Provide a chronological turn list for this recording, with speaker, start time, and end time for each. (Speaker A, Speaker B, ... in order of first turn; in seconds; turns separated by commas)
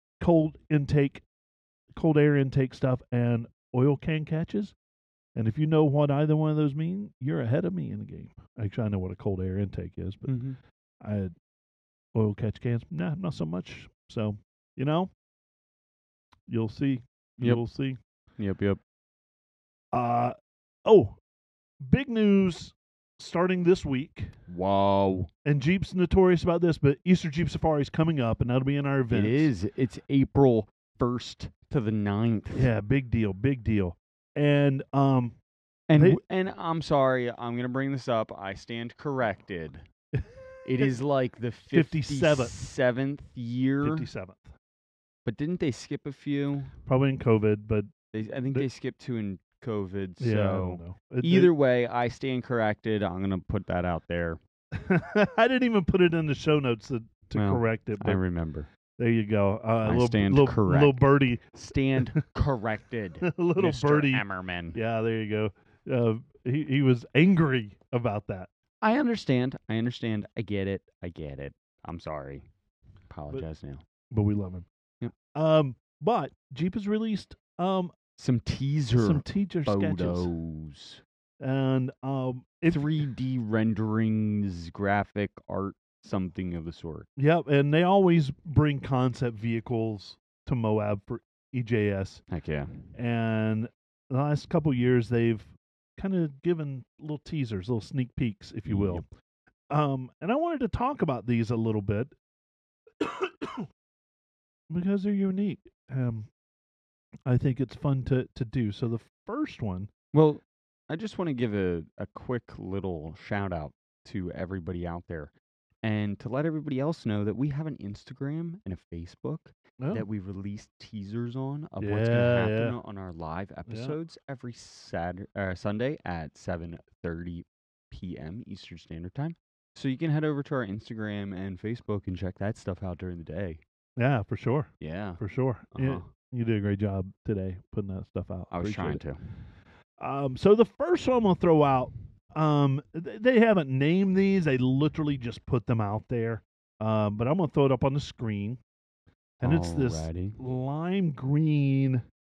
Speaker A: 0.2-1.2, Speaker A: 1.9-4.7, Speaker A: 5.3-10.4, Speaker B: 10.3-10.6, Speaker A: 11.0-11.3, Speaker A: 12.1-15.1, Speaker A: 16.5-18.0, Speaker B: 18.4-18.8, Speaker A: 19.9-20.3, Speaker A: 20.8-21.2, Speaker A: 21.8-24.3, Speaker B: 24.5-25.3, Speaker A: 25.4-29.5, Speaker B: 29.1-32.7, Speaker A: 32.5-35.4, Speaker B: 35.9-39.9, Speaker A: 40.1-40.9, Speaker B: 40.6-44.0, Speaker A: 41.7-42.5, Speaker A: 43.8-44.5, Speaker B: 45.2-46.7, Speaker A: 46.9-47.9, Speaker B: 48.1-54.4, Speaker A: 50.2-51.5, Speaker A: 54.7-58.2, Speaker B: 57.3-58.7, Speaker A: 59.0-61.4, Speaker B: 59.8-61.0, Speaker B: 61.5-64.8, Speaker A: 63.2-64.2, Speaker A: 64.7-68.5, Speaker B: 68.8-72.5, Speaker B: 73.1-73.8, Speaker A: 74.1-74.7, Speaker A: 75.3-77.9, Speaker B: 78.2-81.0, Speaker A: 78.9-80.3, Speaker A: 81.4-82.9, Speaker B: 82.7-87.1, Speaker A: 87.2-92.2, Speaker B: 92.3-92.7, Speaker A: 92.9-99.0, Speaker B: 98.7-99.0, Speaker A: 99.7-102.1, Speaker A: 103.0-103.7, Speaker A: 104.7-106.3, Speaker A: 107.2-109.9, Speaker B: 110.1-133.6, Speaker A: 119.8-120.0, Speaker A: 121.8-122.8, Speaker A: 123.7-124.0, Speaker A: 134.0-139.0, Speaker B: 134.8-135.2, Speaker B: 135.7-136.1, Speaker B: 138.5-139.2, Speaker A: 140.0-148.6, Speaker B: 149.4-150.4, Speaker A: 149.4-152.0